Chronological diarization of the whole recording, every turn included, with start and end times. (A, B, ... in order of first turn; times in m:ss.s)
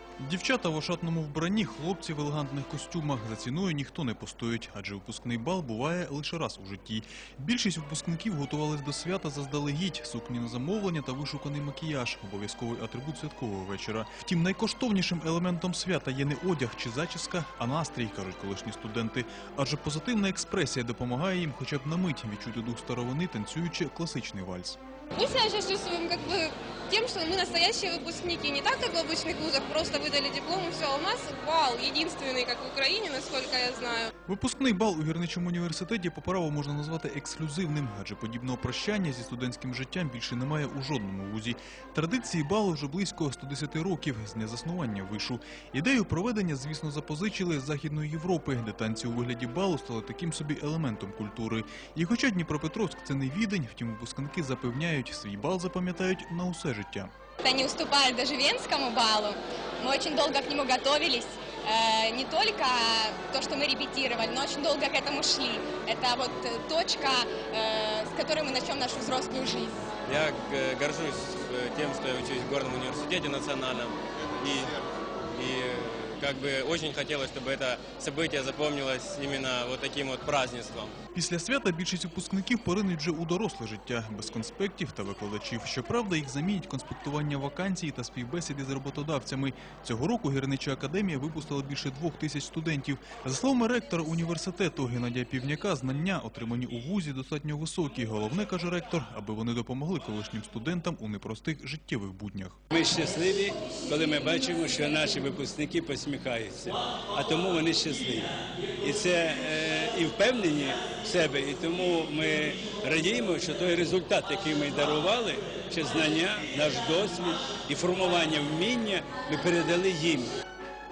0:00.2-0:24.8 A
0:25.2-0:34.1 B
0:34.3-0:57.1 A
0:57.4-1:09.8 C
1:10.0-1:21.0 D
1:21.1-1:42.6 A
1:42.7-2:00.4 E